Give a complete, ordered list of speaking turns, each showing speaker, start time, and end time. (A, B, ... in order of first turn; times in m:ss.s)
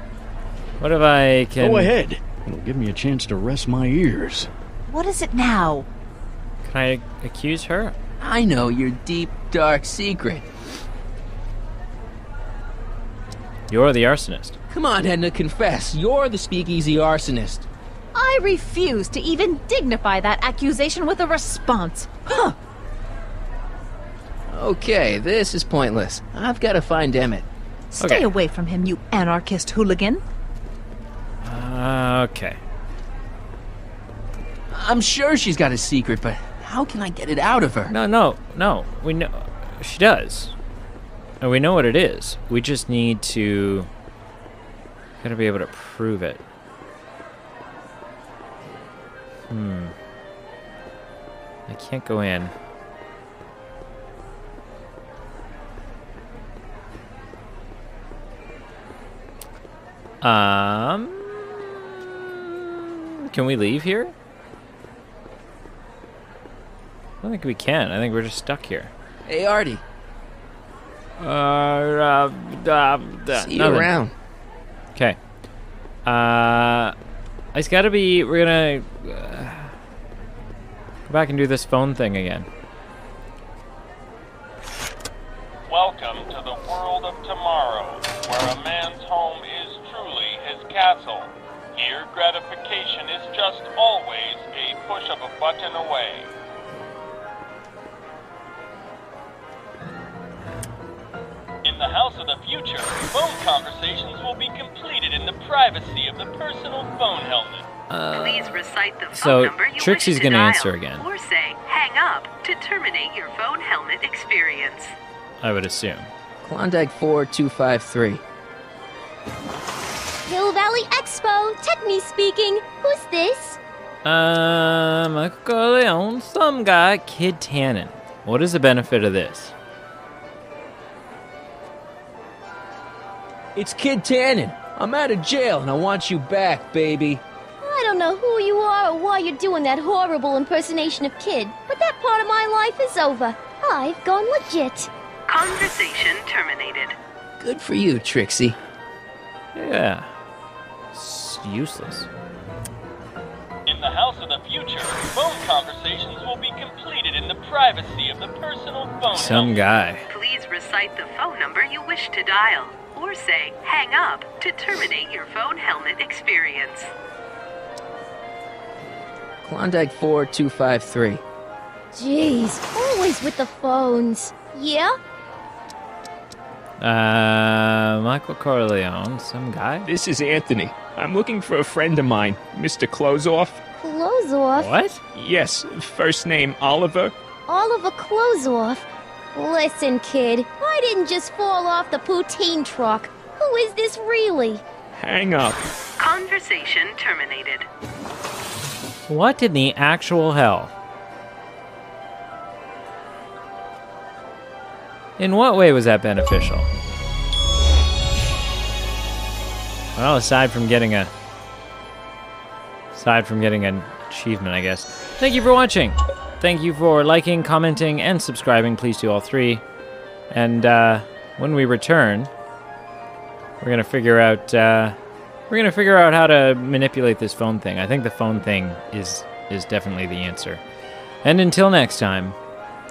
0:00.8-0:01.9 A
0:01.6-0:04.5 B
0:04.9-0:05.9 C
0:06.6-0:07.9 A
0:08.2-0:10.4 D
0:13.7-0:14.6 A
0:14.7-0:17.7 D
0:18.1-0:22.6 C
0:24.5-0:27.4 D
0:27.9-0:30.2 C
0:28.0-0:28.3 A
0:31.4-0:32.6 A
0:34.7-0:37.9 D
0:37.9-0:40.5 A
0:41.4-0:43.9 A
0:45.2-0:46.4 A
0:49.5-0:49.9 A
0:51.7-0:52.5 A
1:00.2-1:04.1 A
1:07.2-1:08.9 A
1:09.2-1:09.8 D
1:11.2-1:13.9 A
1:13.3-1:14.1 D
1:16.0-1:16.9 A
1:17.5-1:19.7 A
1:21.1-1:22.5 A
1:25.7-1:36.3 E
1:41.6-1:47.7 E
1:47.9-1:51.0 A
1:48.1-1:54.9 F
1:55.4-1:56.1 A
1:56.4-1:58.2 D
2:00.2-2:03.6 G
2:04.0-2:09.5 A
2:13.5-2:17.2 D
2:17.6-2:24.9 G
2:25.3-2:27.0 F
2:27.4-2:28.6 D
2:29.5-2:30.1 A
2:30.9-2:32.1 A
2:33.6-2:39.6 E
2:39.1-2:40.0 A
2:40.1-2:46.9 F
2:49.4-2:51.2 D
2:51.9-2:54.9 G
2:56.8-2:59.9 A
2:59.8-3:03.6 H
3:03.8-3:04.7 G
3:04.5-3:05.0 A
3:05.0-3:07.1 H
3:07.5-3:14.6 G
3:14.9-3:15.6 H
3:16.0-3:17.7 F
3:19.1-3:20.7 A
3:25.2-3:26.7 A
3:30.0-3:31.1 A
3:32.9-3:39.6 A
3:40.3-3:42.3 A
3:43.6-3:45.0 A
3:45.5-3:50.6 A
3:51.2-3:52.3 A